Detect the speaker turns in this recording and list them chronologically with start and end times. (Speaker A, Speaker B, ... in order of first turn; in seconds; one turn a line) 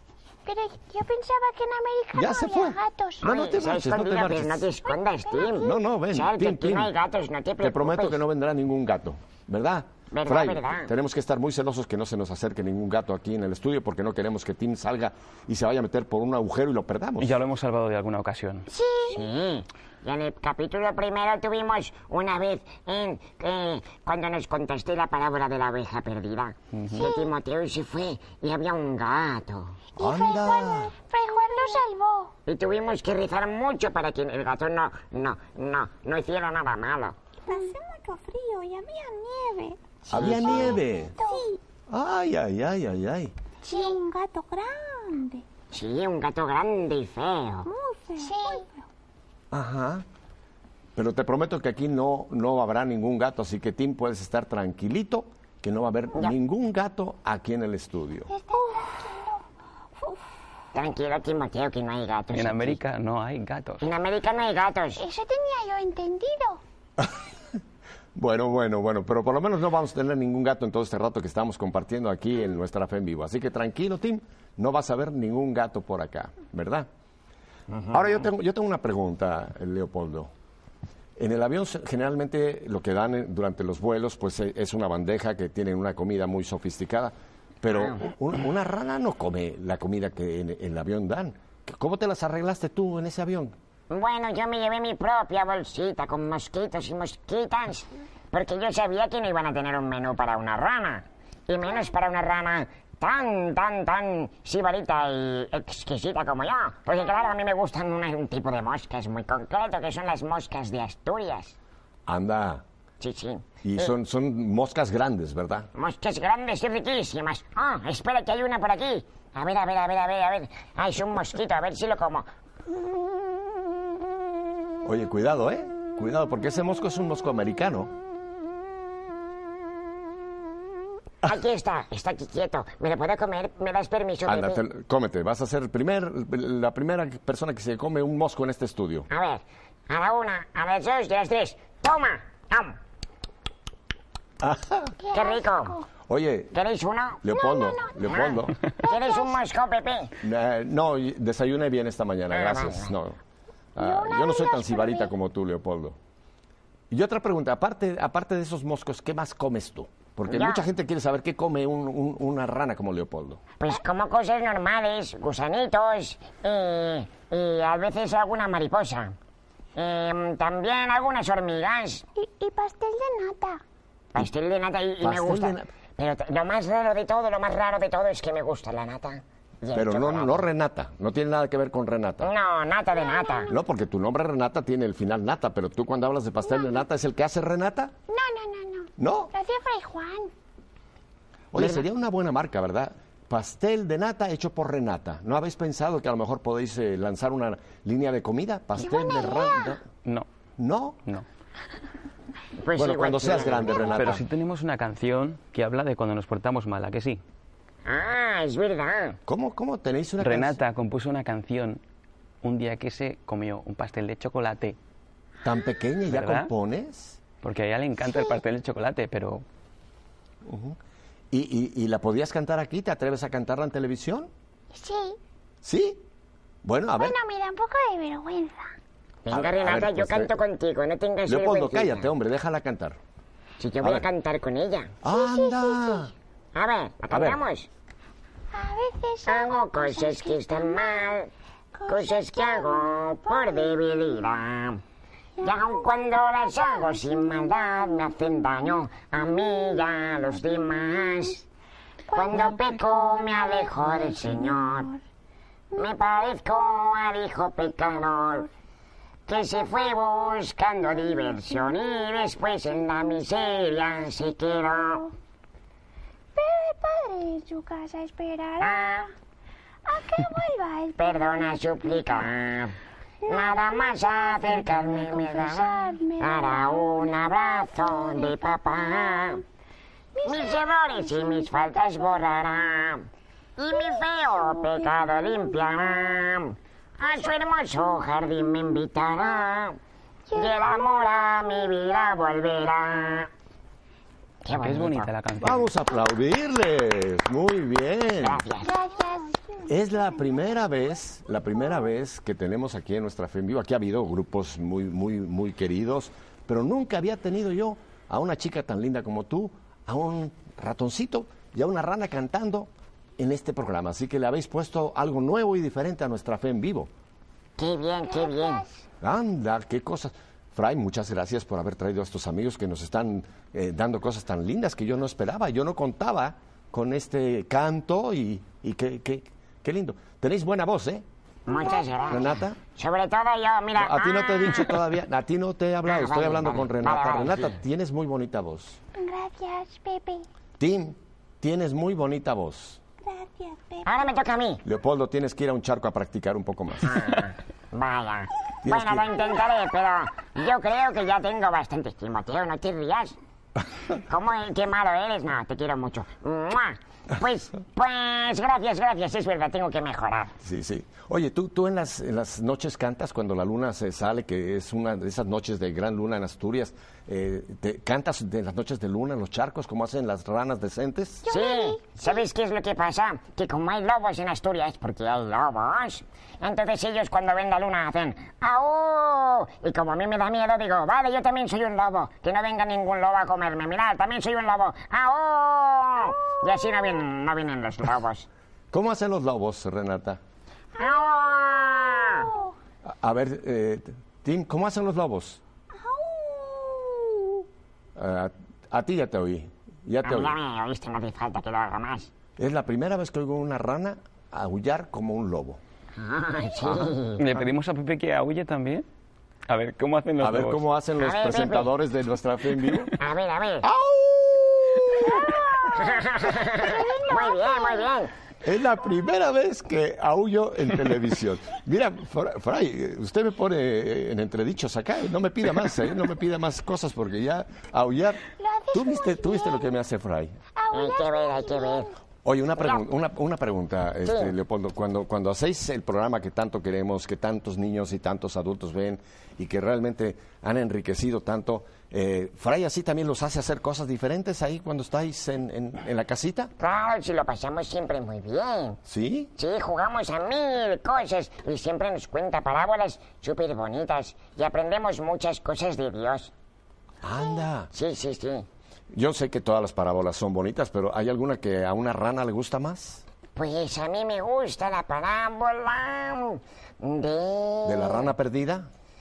Speaker A: 0.5-3.2
Speaker B: 2.1-4.7
Speaker C: 3.2-8.2
Speaker A: 4.8-5.8
Speaker B: 5.5-6.9
Speaker B: 7.6-17.4
Speaker C: 10.1-10.9
Speaker D: 17.2-18.7
Speaker A: 18.7-19.2
Speaker C: 19.1-29.8
Speaker D: 26.7-27.1
Speaker A: 26.9-27.3
Speaker A: 30.0-32.3
Speaker B: 30.0-30.9
Speaker E: 31.3-31.8
Speaker C: 32.5-37.2
Speaker E: 37.5-41.6
Speaker C: 40.0-40.8
Speaker B: 40.1-41.2
Speaker A: 41.1-41.5
Speaker B: 41.9-43.3
Speaker A: 43.6-44.0
Speaker E: 43.6-45.5
Speaker C: 45.7-47.7
Speaker E: 47.6-48.9
Speaker A: 48.2-48.6
Speaker B: 49.5-50.0
Speaker B: 51.0-58.3
Speaker A: 58.3-59.4
Speaker E: 58.5-59.1
Speaker C: 60.7-62.8
Speaker D: 62.3-63.8
Speaker C: 63.8-65.0
Speaker A: 65.0-66.6
Speaker B: 67.0-67.2
Speaker B: 68.1-76.9
Speaker C: 77.7-78.0
Speaker B: 77.9-80.3
Speaker B: 81.2-93.5
Speaker C: 93.9-111.6
Speaker B: 112.1-112.6
Speaker C: 113.0-113.9
Speaker B: 113.6-115.7
Speaker C: 115.8-122.3
Speaker B: 124.8-127.9
Speaker C: 131.2-134.6
Speaker B: 134.3-139.1
Speaker C: 139.1-142.8
Speaker B: 144.4-144.9
Speaker A: 145.0-145.9
Speaker C: 145.1-145.8
Speaker B: 146.1-146.5
Speaker C: 146.5-147.2
Speaker B: 147.2-148.6
Speaker A: 147.3-149.4
Speaker C: 148.1-150.2
Speaker B: 150.2-153.2
Speaker C: 152.3-152.9
Speaker B: 153.8-156.0
Speaker A: 153.8-155.1
Speaker B: 156.9-163.4
Speaker C: 160.3-160.6
Speaker C: 163.6-169.2
Speaker C: 169.8-172.1
Speaker A: 172.2-173.6
Speaker C: 174.1-180.5
Speaker B: 175.0-175.7
Speaker B: 179.7-182.3
Speaker C: 182.2-183.5
Speaker A: 182.9-183.6
Speaker B: 183.5-187.9
Speaker A: 186.5-186.8
Speaker A: 188.1-190.3
Speaker B: 189.0-189.3
Speaker B: 191.5-199.8
Speaker C: 191.6-191.8
Speaker A: 198.8-199.8
Speaker B: 200.6-201.0
Speaker C: 202.6-204.1
Speaker B: 202.8-204.2
Speaker D: 203.9-207.2
Speaker C: 207.9-209.2
Speaker B: 209.3-210.6
Speaker D: 210.2-211.8
Speaker D: 212.4-214.8
Speaker B: 215.4-217.2
Speaker D: 216.1-216.5
Speaker D: 217.4-219.4
Speaker A: 218.0-218.4
Speaker B: 220.4-220.8
Speaker B: 221.3-224.3
Speaker A: 224.7-225.2
Speaker B: 225.6-226.0
Speaker B: 226.6-227.2
Speaker A: 227.0-228.7
Speaker C: 229.2-232.1
Speaker B: 229.3-230.3
Speaker B: 231.2-233.0
Speaker C: 233.6-234.9
Speaker B: 235.0-236.1
Speaker A: 235.1-236.1
Speaker C: 236.5-237.7
Speaker B: 237.1-237.4
Speaker A: 238.5-241.1
Speaker C: 239.2-241.3
Speaker A: 241.8-243.7
Speaker C: 241.9-244.8
Speaker A: 245.4-245.9
Speaker C: 245.4-251.5
Speaker A: 252.1-254.5
Speaker C: 252.1-254.9
Speaker C: 255.8-258.5
Speaker C: 259.3-265.1
Speaker A: 261.5-262.2
Speaker A: 266.4-269.1
Speaker C: 268.6-269.1
Speaker A: 269.9-272.3
Speaker C: 271.0-279.4
Speaker A: 273.2-278.3
Speaker A: 280.1-281.5
Speaker C: 280.2-289.8
Speaker A: 283.9-284.7
Speaker A: 290.3-291.0
Speaker C: 290.3-293.3
Speaker C: 294.4-295.1
Speaker D: 294.5-295.7
Speaker B: 295.4-298.4
Speaker C: 298.2-298.7
Speaker A: 298.6-299.4
Speaker E: 299.0-299.7
Speaker B: 299.6-316.9
Speaker C: 317.6-318.6
Speaker A: 318.1-318.9
Speaker B: 319.0-331.0
Speaker C: 331.5-334.8
Speaker A: 331.5-332.2
Speaker B: 332.1-332.6
Speaker B: 333.8-338.8
Speaker C: 335.9-337.6
Speaker A: 338.9-340.3
Speaker B: 340.6-342.8
Speaker E: 343.0-343.9
Speaker C: 343.8-344.6
Speaker B: 344.6-347.1
Speaker C: 346.8-353.2
Speaker B: 348.6-349.2
Speaker C: 354.1-360.3
Speaker B: 360.4-371.3
Speaker A: 371.2-372.2
Speaker C: 371.3-388.3
Speaker B: 388.7-390.2
Speaker C: 390.8-392.3
Speaker B: 392.9-395.4
Speaker E: 395.7-397.4
Speaker B: 397.9-400.4
Speaker C: 400.0-402.1
Speaker B: 402.4-405.6
Speaker C: 406.0-407.2
Speaker B: 406.6-406.9
Speaker D: 407.2-408.9
Speaker D: 409.5-410.6
Speaker B: 410.2-413.0
Speaker C: 411.0-411.7
Speaker C: 412.9-413.7
Speaker B: 413.6-415.6
Speaker A: 415.1-417.9
Speaker C: 415.6-418.1
Speaker B: 418.4-430.4
Speaker A: 428.4-429.6
Speaker A: 430.6-431.9
Speaker C: 430.7-431.9
Speaker B: 432.2-446.5
Speaker C: 432.6-432.8
Speaker C: 434.1-434.3
Speaker C: 446.6-448.8
Speaker B: 448.9-449.3
Speaker C: 449.4-456.3
Speaker B: 457.0-457.7
Speaker C: 457.7-458.5
Speaker B: 458.9-463.0
Speaker C: 463.4-468.1
Speaker B: 467.6-468.7